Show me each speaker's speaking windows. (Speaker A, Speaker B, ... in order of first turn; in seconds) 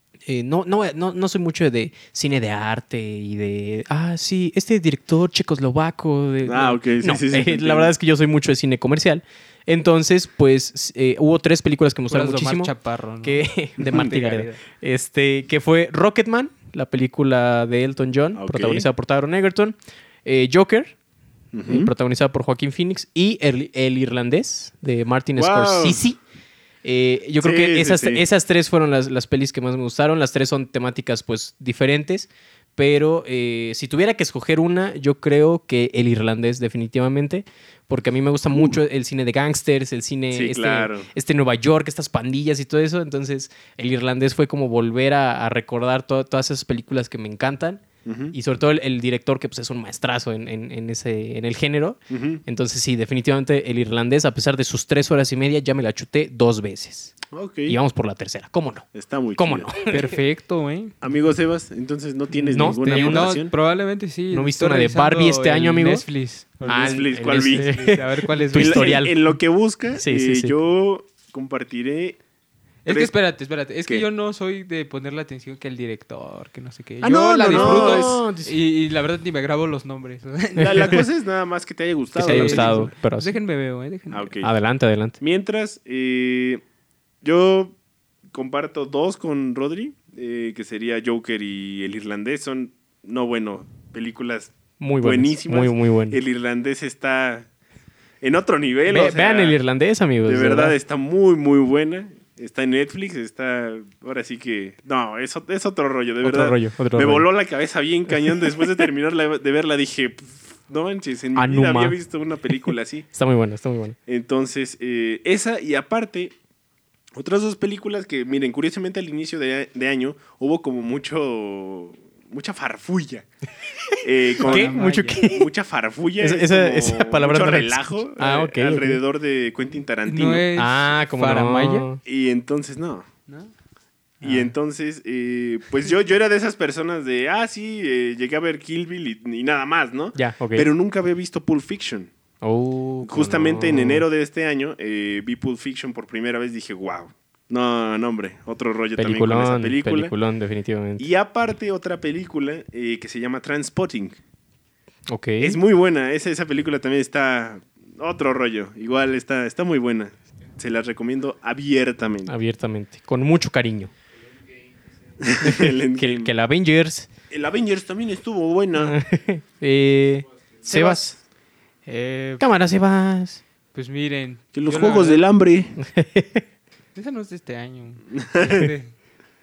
Speaker A: 0.2-20.9, 21.6-26.2, 26.8-57.1, 57.7-60.1, 62.5-63.3, 64.3-66.0, 66.7-69.3, 69.9-70.5, 77.2-78.5, 80.6-81.0, 82.1-83.3, 84.4-85.2, 94.8-96.2, 98.9-100.8, 106.2-107.3, 111.3-112.0, 112.7-114.0, 123.9-125.5, 126.2-129.0, 130.6-132.0, 134.2-134.5, 140.1-140.7, 142.4-144.0, 149.0-151.1, 155.1-155.6, 162.2-163.9, 165.4-167.1, 168.8-171.1, 172.4-173.4, 175.8-176.4
Speaker B: 6.4-7.9, 13.8-14.1, 18.3-18.9, 21.5-21.9, 25.4-26.0, 27.4-28.2, 38.5-38.8, 40.3-41.1, 48.0-48.3, 52.1-52.4, 57.3-57.8, 58.9-59.7, 61.0-63.5, 66.7-67.7, 68.5-72.2, 72.8-73.1, 77.0-78.2, 80.6-82.9, 84.1-84.5, 85.2-86.6, 87.2-87.7, 88.3-97.5, 98.2-99.6, 100.2-113.1, 114.1-116.3, 117.1-123.2, 124.0-130.4, 132.0-133.1, 134.2-142.1, 143.0-150.1, 151.0-154.2, 155.4-162.3, 165.2-166.3, 167.3-169.0, 170.6-171.2, 174.5-175.8, 178.1-178.6
Speaker C: 12.1-14.6, 59.9-60.9, 62.6-69.0, 72.8-81.0, 82.2-84.3, 124.4-125.2, 130.0-131.9, 171.8-172.4, 173.7-175.2, 176.9-178.9